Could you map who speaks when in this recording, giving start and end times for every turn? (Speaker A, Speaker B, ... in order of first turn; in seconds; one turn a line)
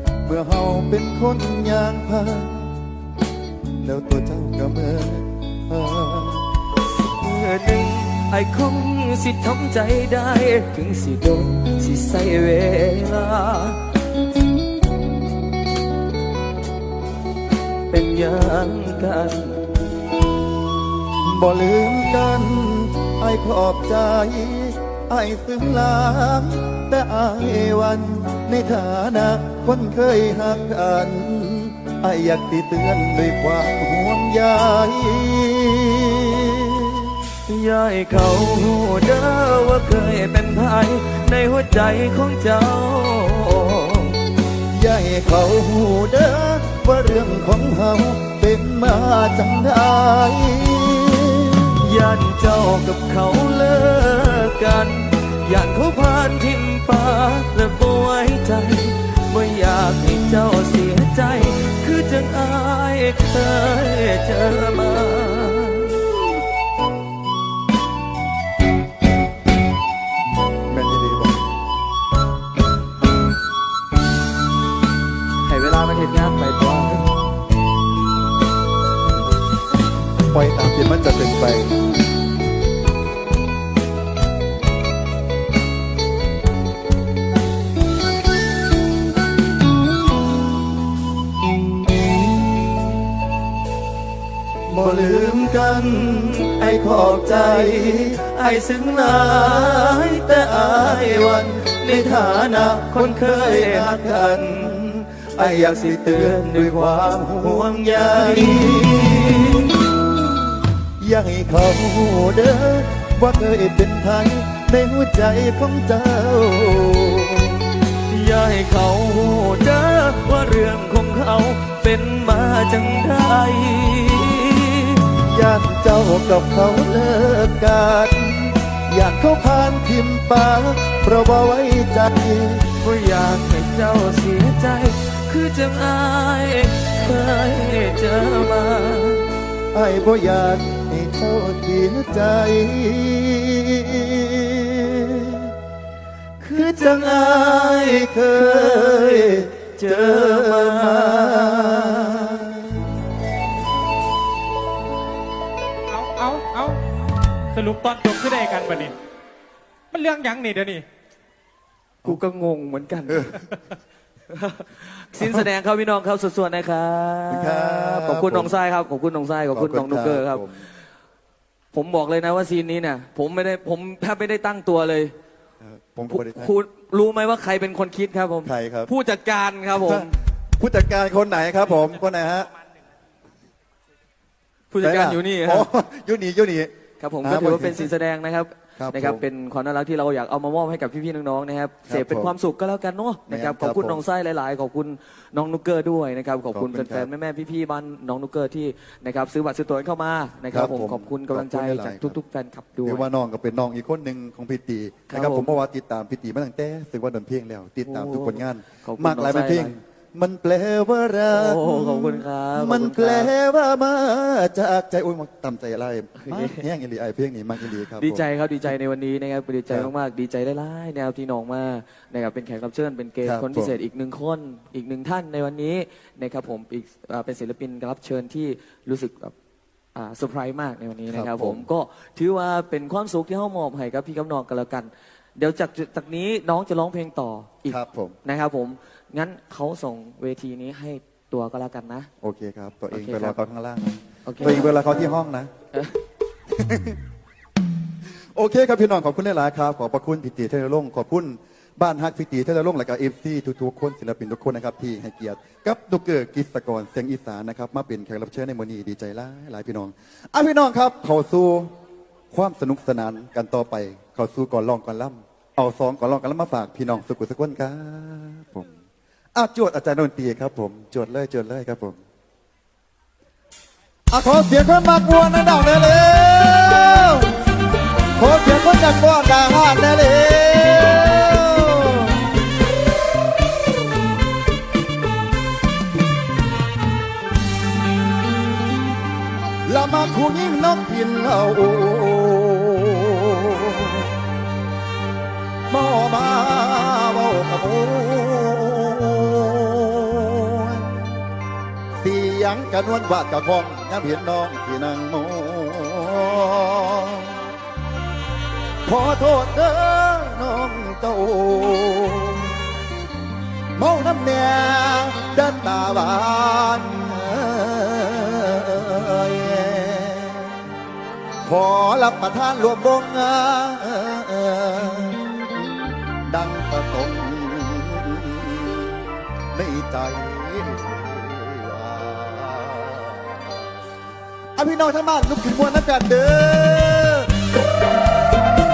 Speaker A: 0.2-2.7
Speaker A: 3.8-6.4
Speaker B: 6.8-13.8
Speaker B: 17.9-19.7
Speaker A: 21.2-37.2
Speaker B: 37.5-44.2
Speaker A: 44.7-51.7
Speaker B: 51.8-66.1
Speaker A: 70.7-71.5
Speaker B: 75.4-77.2
Speaker A: 80.3-81.8
Speaker A: 94.7-98.2
Speaker B: 94.7-109.7
Speaker A: 102.9-104.8
Speaker A: 105.4-109.5
Speaker A: 111.0-117.6
Speaker B: 118.1-125.0
Speaker A: 125.1-132.6
Speaker B: 132.7-139.3
Speaker A: 139.7-145.5
Speaker B: 146.4-152.5
Speaker A: 146.5-152.9
Speaker C: 155.9-156.8
Speaker C: 157.5-158.9
Speaker C: 159.9-160.8
Speaker B: 162.0-163.6
Speaker A: 163.1-163.6
Speaker B: 164.3-170.5
Speaker A: 167.3-168.6
Speaker A: 169.5-170.6
Speaker B: 171.7-175.1
Speaker A: 175.6-176.5
Speaker B: 176.1-180.1
Speaker A: 178.4-178.9
Speaker A: 179.7-182.5
Speaker B: 184.7-185.7
Speaker A: 184.8-186.7
Speaker B: 187.0-203.1
Speaker A: 187.2-187.9
Speaker A: 188.8-189.2
Speaker A: 191.9-192.3
Speaker A: 193.3-194.0
Speaker A: 196.5-197.1
Speaker A: 200.5-202.2
Speaker A: 202.8-218.2
Speaker B: 205.1-205.5
Speaker B: 207.8-209.7
Speaker B: 211.3-213.3
Speaker B: 216.2-216.6
Speaker B: 217.6-229.3
Speaker A: 223.2-223.7
Speaker B: 229.9-242.1
Speaker A: 231.1-231.7
Speaker A: 237.7-238.2
Speaker A: 242.2-245.5
Speaker B: 242.9-243.3
Speaker B: 244.2-244.9
Speaker A: 246.5-247.0
Speaker A: 248.3-261.7
Speaker A: 262.3-268.8
Speaker A: 269.3-272.0
Speaker A: 274.1-277.4
Speaker A: 278.1-282.3
Speaker A: 289.6-294.1
Speaker A: 295.7-301.0
Speaker A: 301.9-307.5
Speaker A: 308.8-312.7
Speaker A: 313.8-320.7
Speaker A: 321.4-333.8
Speaker A: 334.6-337.4